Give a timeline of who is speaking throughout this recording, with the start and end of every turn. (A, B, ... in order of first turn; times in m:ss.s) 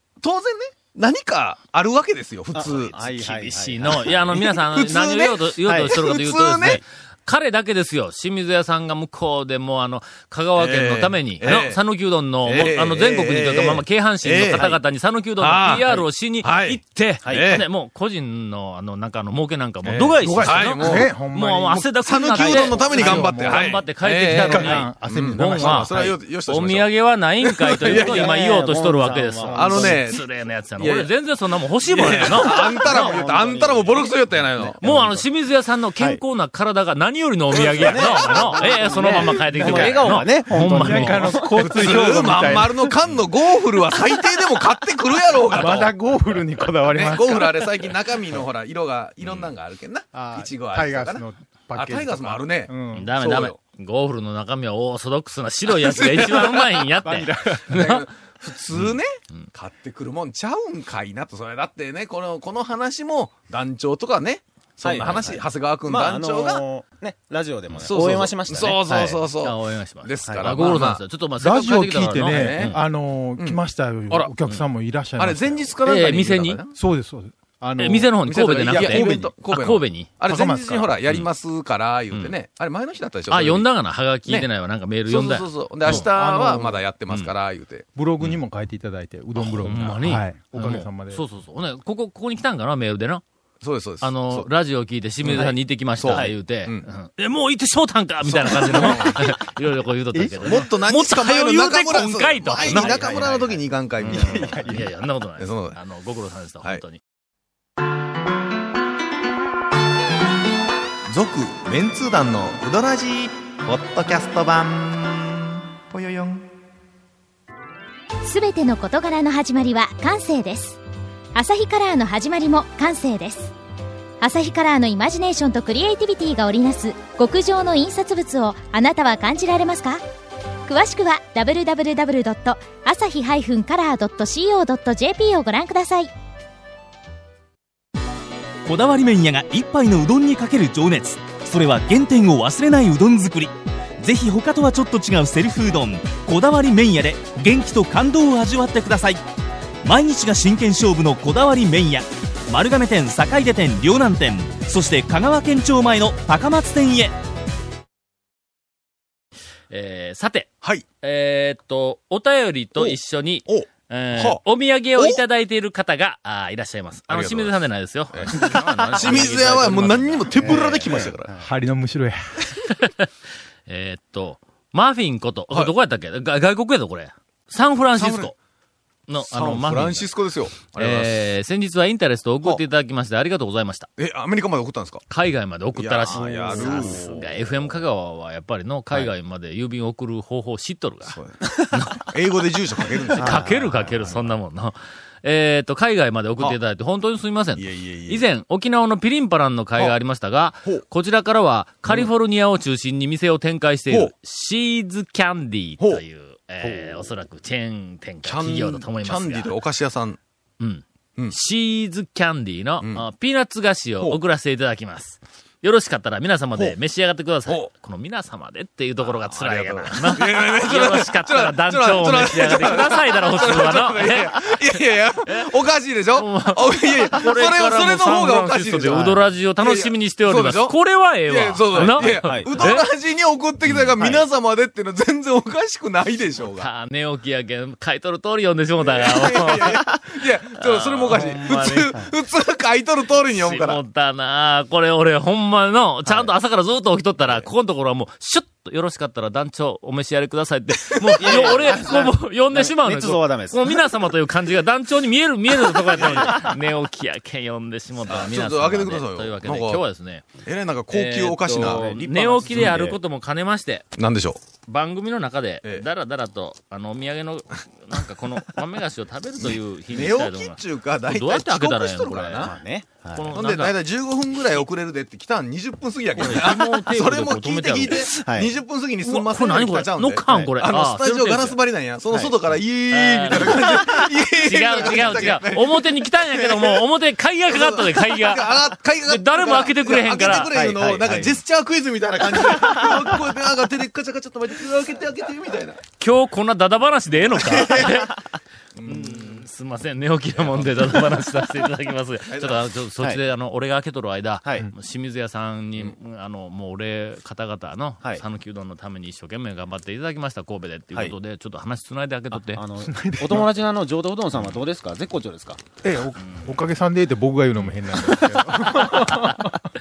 0:00.2-0:03.0 A
0:02.5-0:04.3 B
0:02.9-0:33.2 C
0:04.3-0:06.8 A
0:05.6-0:06.0 B
0:10.6-0:11.8 A
0:12.5-0:14.7 A
0:15.4-0:17.7 A
0:19.8-0:21.1 A
0:20.2-0:26.1 D
0:22.0-0:26.9 A
0:27.4-0:28.3 A
0:27.8-0:30.1 B
0:29.5-0:30.2 A
0:30.8-0:31.1 A
0:31.9-0:34.8 A
0:32.1-0:35.2 B
0:34.8-0:41.5 C
0:37.5-0:39.2 A
0:37.8-0:42.2 B
0:39.5-0:43.0 D
0:41.6-0:46.0 A
0:45.5-0:48.0 D
0:46.9-0:51.2 A
0:50.1-0:53.1 D
0:51.7-0:53.6 A
0:52.9-0:58.0 C
0:55.7-0:56.9 A
0:57.0-0:57.9 D
0:57.7-1:06.6 A
0:58.7-0:59.5 C
1:04.8-1:09.2 B
1:07.8-1:11.0 A
1:09.4-1:12.8 C
1:10.3-1:10.5 B
1:11.4-1:15.7 D
1:12.2-1:12.8 A
1:15.2-1:16.8 A
1:15.8-1:16.6 C
1:16.8-1:19.3 D
1:17.8-1:20.1 C
1:18.3-1:23.7 A
1:20.3-1:20.9 D
1:23.3-1:26.1 C
1:25.1-1:27.9 A
1:26.0-1:26.8 D
1:28.0-1:31.2 D
1:29.4-1:33.2 C
1:33.6-1:34.5 A
1:34.0-1:43.3 C
1:35.2-1:36.9 A
1:36.1-1:36.3 B
1:38.2-1:39.3 A
1:40.4-1:44.8 A
1:42.6-1:43.6 B
1:44.1-1:47.0 C
1:44.1-1:44.8 B
1:45.4-1:45.8 A
1:51.1-1:56.4 A
1:58.2-2:00.8 E
2:01.4-2:03.5 E
2:04.2-2:10.0 E
2:10.7-2:16.1 E
2:18.6-2:29.2 F
2:29.8-2:37.2 F
2:39.7-2:40.5 C
2:41.0-2:50.6 C
2:42.8-2:44.4 A
2:45.0-2:45.2 A
2:47.1-2:47.6 A
2:48.1-2:51.3 A
2:48.3-2:49.3 B
2:50.4-2:51.5 B
2:51.4-2:52.6 D
2:52.8-2:53.1 C
2:53.7-2:58.3 C
2:58.0-2:58.3 A
2:59.1-3:00.1 C
2:59.3-3:01.3 A
3:00.7-3:03.9 C
3:04.0-3:05.0 A
3:05.1-3:11.2 C
3:05.8-3:07.8 A
3:06.1-3:07.1 B
3:11.1-3:13.5 A
3:11.7-3:12.1 C
3:13.1-3:29.5 C
3:13.2-3:14.1 B
3:17.6-3:18.2 A
3:26.6-3:27.1 A
3:28.2-3:30.2 A
3:30.6-3:44.6 C
3:39.1-3:56.7 A
3:46.2-3:52.8 C
3:48.9-3:49.2 B
3:51.8-3:52.7 B
3:54.0-3:54.2 B
3:56.6-3:59.9 C
3:58.8-4:03.8 A
4:00.6-4:02.0 C
4:03.4-4:20.3 C
4:11.0-4:11.7 A
4:11.2-4:13.8 B
4:16.0-4:16.4 A
4:18.1-4:19.8 A
4:20.4-4:21.9 A
4:20.9-4:23.8 C
4:21.5-4:23.0 B
4:22.5-4:22.8 A
4:24.0-4:24.4 A
4:24.7-4:32.5 C
4:29.4-4:32.5 A
4:32.4-4:33.4 B
4:33.1-4:33.8 C
4:33.3-4:46.8 A
4:36.2-4:38.2 C
4:38.2-4:38.5 B
4:39.0-4:41.6 C
4:42.9-4:50.5 C
4:44.8-4:45.3 B
4:47.5-4:55.8 A
4:50.5-4:51.4 B
4:52.5-4:53.0 B
4:56.0-4:58.2 C
4:57.3-4:58.1 A
4:58.8-4:59.4 A
4:58.9-5:12.6 C
5:00.4-5:01.2 A
5:02.3-5:02.6 A
5:04.4-5:04.7 B
5:12.4-5:15.6 B
5:12.8-5:13.5 D
5:15.8-5:19.6 D
5:18.9-5:19.4 C